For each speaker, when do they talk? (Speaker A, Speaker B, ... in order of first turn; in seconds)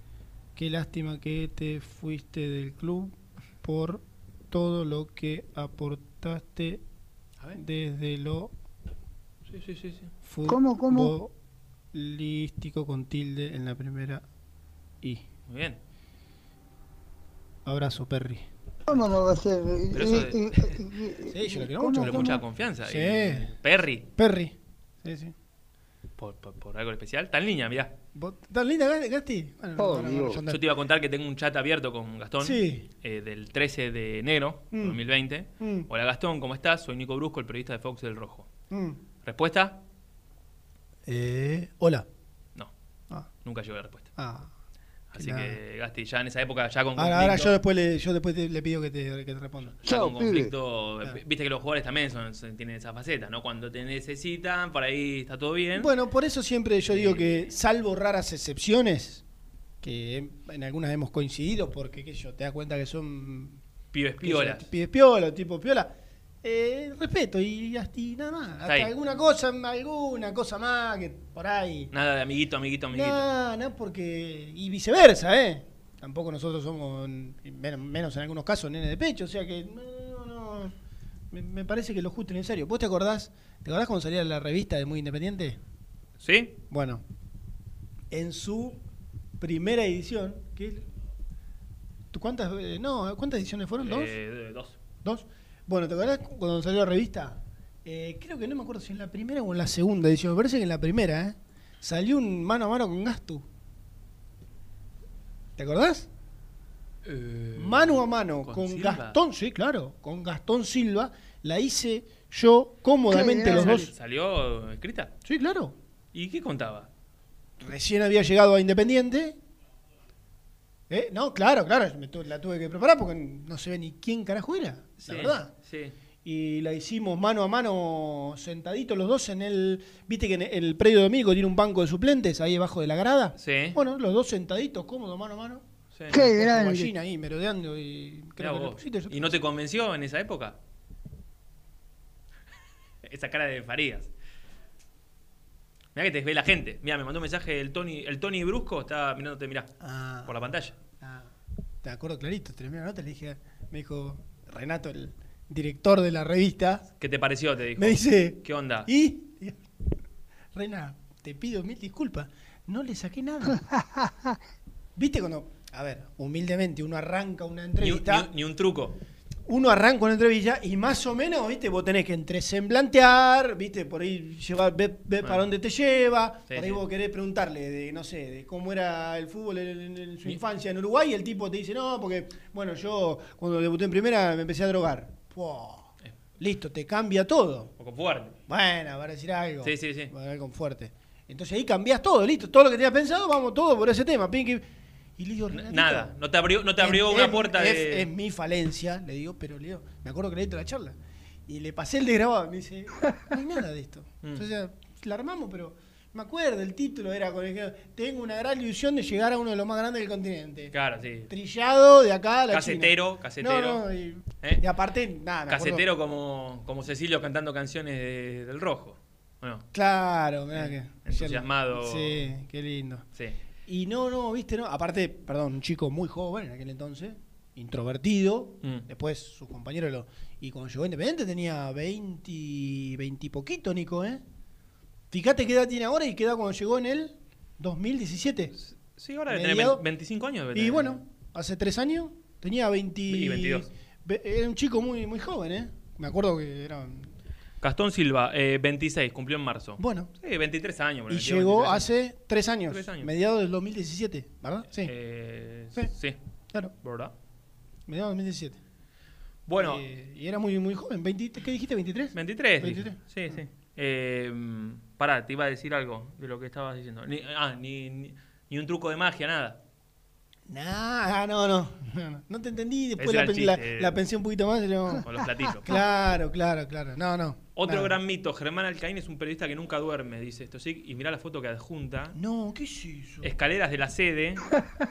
Speaker A: 0.6-6.8, 7.5-8.5, 10.2-11.3, 11.9-14.2, 17.6-18.5, 21.3-23.5, 24.2-25.3, 28.1-30.6, 32.4-32.9, 34.7-35.0, 35.6-35.9, 38.7-39.0, 41.0-42.1, 44.1-44.5, 45.1-45.6, 47.0-49.8, 55.7-59.2, 59.8-63.6, 64.2-71.9, 72.9-80.7, 81.3-85.6, 86.7-87.0, 88.1-88.8, 89.4-90.9, 92.1-94.1, 95.0-103.5, 105.6-106.1, 107.5-113.9, 115.2-115.7, 117.6-119.4, 120.9-125.5, 126.2-139.4, 149.8-150.3, 151.0-151.3, 151.8-156.8, 157.8-159.7, 160.5-163.6, 164.9-168.3, 169.5-187.7, 188.5-194.6, 195.2-196.1, 196.8-210.7, 211.3-215.8, 219.7-223.0, 223.7-234.2, 235.1-238.5, 239.3-239.8, 240.5-247.1, 249.8-250.1, 251.1-254.9, 257.9-258.6, 259.5-263.4, 270.5-275.1, 275.6-277.9, 282.1-283.3
Speaker B: 9.5-10.1, 15.5-15.8, 19.9-20.8, 21.9-24.1, 26.2-27.9, 30.5-38.5, 39.2-39.8, 43.4-44.1, 45.1-47.5, 49.8-55.9, 56.9-57.5, 63.9-64.7, 68.6-68.9, 71.9-73.2, 86.2-86.6, 93.8-94.8, 107.0-109.2, 113.4-115.1, 116.1-116.9, 125.0-125.9, 133.4-133.8, 135.9-136.3, 138.4-140.6, 143.0-144.1, 145.9-149.7, 150.2-150.7, 157.0-158.9, 167.8-168.9, 176.5-176.8, 187.8-188.3, 189.6-190.1, 195.5-198.1, 204.2-204.5, 210.7-211.3, 212.5-213.8, 215.5-219.6, 220.5-222.2, 238.5-241.0, 243.1-243.7, 247.6-251.9, 252.7-253.1, 254.8-256.2, 256.8-257.1, 259.5-259.8, 262.1-269.6, 273.0-273.9, 275.0-275.8, 277.6-282.1, 283.2-284.4
Speaker C: 10.5-11.1, 18.9-21.1, 21.6-22.3, 29.8-30.4, 49.9-50.5, 113.1-113.8, 136.1-136.9